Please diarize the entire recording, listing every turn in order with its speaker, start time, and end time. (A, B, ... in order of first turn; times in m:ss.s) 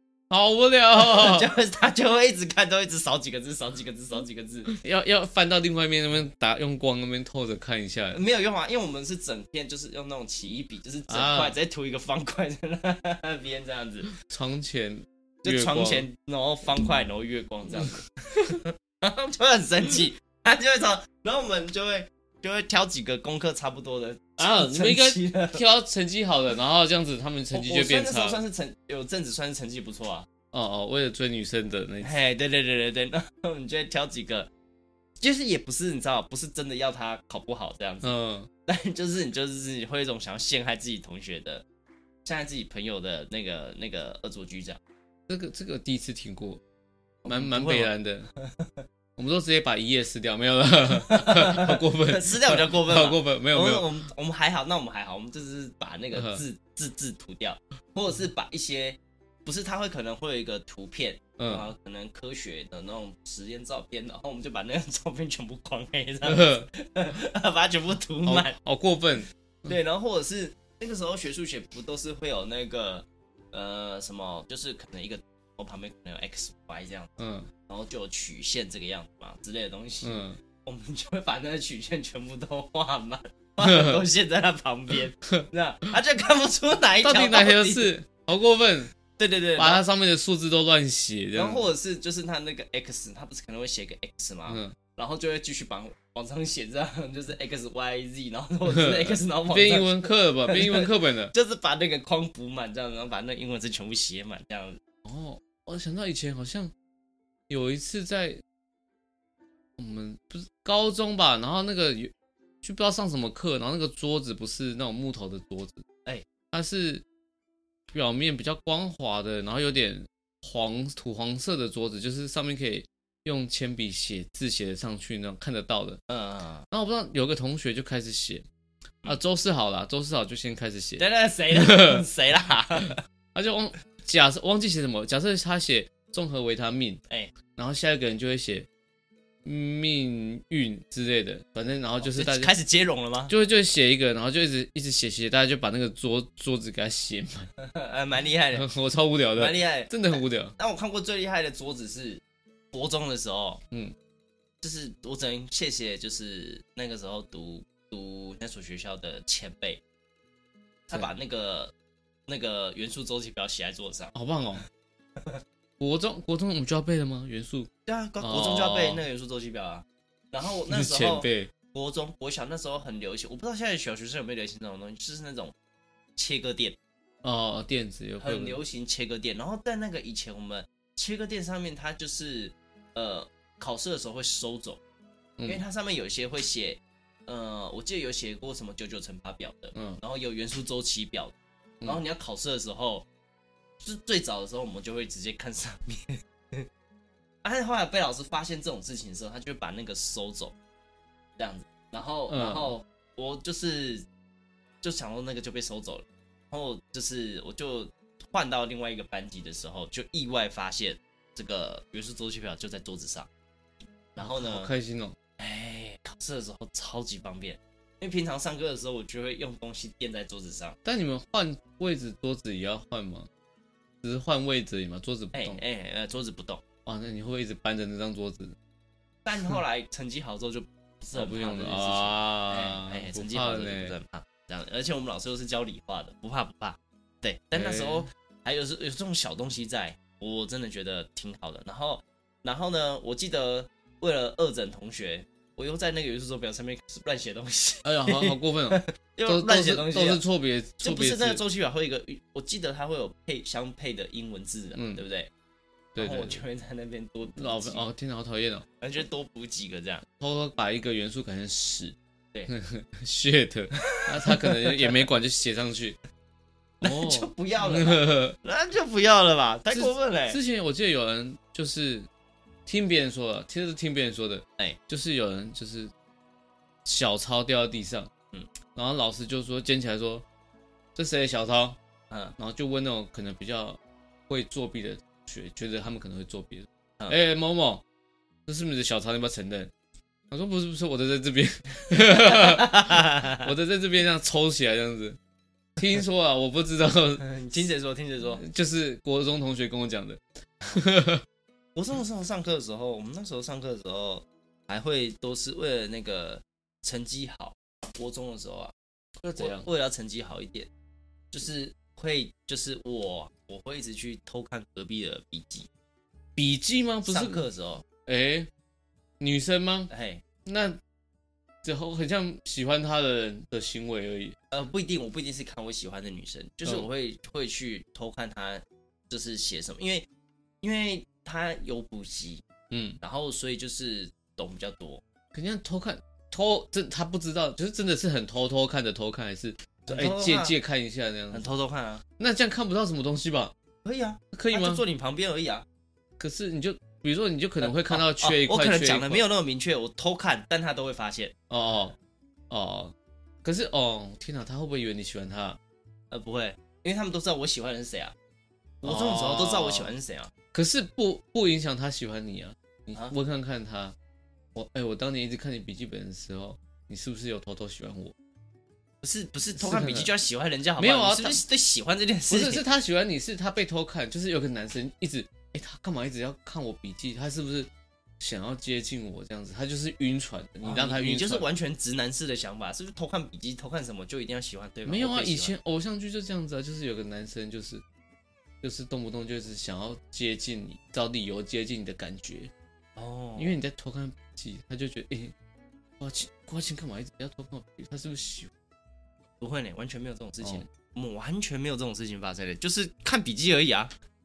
0:00.3-0:01.5 A
0:00.9-0:04.7 B
0:04.7-0:08.2 A
0:08.1-0:14.1 B
0:11.1-0:11.6 A
0:14.2-0:16.1 A
0:15.4-0:25.6 B
0:24.4-0:28.4 A
0:27.5-0:30.3 B
0:30.5-0:32.1 A
0:32.0-0:34.5 B
0:35.2-0:38.2 B
0:38.0-0:38.5 A
0:38.7-0:41.6 B
0:42.2-0:44.8 B
0:45.3-0:46.6 A
0:47.2-0:48.8 B
0:47.2-0:48.3 A
0:49.2-0:53.9 A
0:50.9-1:08.6 B
0:56.1-0:56.4 A
1:01.4-1:01.7 A
1:06.2-1:06.7 A
1:08.2-1:09.7 A
1:09.6-1:27.9 B
1:17.2-1:17.5 A
1:20.0-1:20.4 A
1:23.6-1:24.0 A
1:27.0-1:28.9 A
1:29.2-1:29.8 B
1:29.6-1:31.7 A
1:31.3-1:44.8 B
1:34.5-1:34.8 A
1:38.7-1:41.3 A
1:45.0-1:46.7 A
1:47.5-1:48.4 A
1:49.8-1:52.1 A
1:52.6-1:55.8 A
1:56.5-1:57.0 A
1:57.9-2:06.0 A
2:06.1-2:06.7 B
2:06.7-2:08.4 A
2:09.0-2:12.0 A
2:11.0-2:13.0 B
2:13.3-2:17.0 A
2:17.6-2:18.7 A
2:19.4-2:22.5 A
2:22.0-2:23.3 B
2:23.3-2:27.5 A
2:27.6-2:28.7 B
2:28.6-2:30.5 A
2:29.3-2:33.6 B
2:34.6-2:39.8 B
2:40.9-2:41.7 B
2:42.3-2:44.1 B
2:44.1-2:44.6 A
2:45.8-2:49.0 A
2:47.8-2:55.5 B
2:50.7-2:51.5 A
2:56.2-2:56.8 B
2:57.2-2:58.6 A
2:58.2-3:04.8 B
3:05.4-3:13.1 B
3:09.7-3:10.0 A
3:13.8-3:16.7 B
3:17.4-3:20.5 B
3:21.4-3:24.0 B
3:22.3-3:22.7 A
3:24.8-3:33.3 B
3:34.1-3:34.7 B
3:34.2-3:35.2 A
3:35.4-3:40.8 B
3:40.8-3:43.3 A
3:44.0-3:45.6 A
3:45.3-3:46.6 B
3:46.8-3:48.6 A
3:49.2-4:10.2 B
3:51.1-3:54.0 A
3:57.5-3:58.1 A
4:07.8-4:11.4 A
4:10.8-4:15.3 B
4:14.7-4:15.0 A
4:15.9-4:16.4 A
4:16.0-4:17.8 B
4:17.4-4:18.6 A
4:18.8-4:20.0 B
4:20.2-4:22.0 A
4:22.5-4:26.0 A
4:23.8-4:25.0 B
4:26.8-4:28.4 A
4:26.8-4:30.4 B
4:29.7-4:32.1 A
4:32.6-4:35.9 A
4:36.8-4:38.1 A
4:38.7-4:40.2 A
4:41.0-4:41.8 A
4:42.1-4:42.3 B
4:42.4-4:47.8 A
4:48.4-4:49.7 A
4:50.3-4:55.2 A
4:51.9-4:53.5 B
4:55.8-4:57.2 A
4:57.2-4:58.4 B
4:58.4-5:01.2 A
5:01.7-5:08.7 B
5:09.2-5:09.7 A
5:09.4-5:10.7 B
5:11.3-5:15.7 B
5:16.4-5:17.4 A
5:17.1-5:17.8 B
5:18.0-5:18.5 A
5:19.2-5:19.9 A
5:19.9-5:20.2 B
5:20.4-5:20.8 A
5:21.6-5:24.4 A
5:24.5-5:30.1 B
5:30.6-5:32.4 B
5:32.7-5:33.0 A
5:33.0-5:35.0 B
5:35.3-5:41.5 A
5:39.9-5:40.5 B
5:41.3-5:42.0 B
5:42.2-5:43.5 A
5:43.8-5:45.6 B
5:44.3-5:44.8 A
5:46.2-5:49.3 A
5:47.6-5:51.3 B
5:51.5-5:52.0 A
5:52.5-5:55.6 A
5:56.1-5:58.1 B
5:58.8-6:00.3 B
5:58.8-5:59.9 A
6:00.5-6:04.0 A
6:04.5-6:08.1 A
6:09.0-6:12.6 B
6:09.6-6:10.1 A
6:10.8-6:11.4 A
6:12.3-6:21.5 A
6:20.6-6:25.5 B
6:24.8-6:27.8 A
6:28.6-6:32.5 A
6:33.0-6:33.6 B
6:33.4-6:35.3 A
6:36.0-6:38.5 A
6:39.4-6:43.9 B
6:40.4-6:40.7 A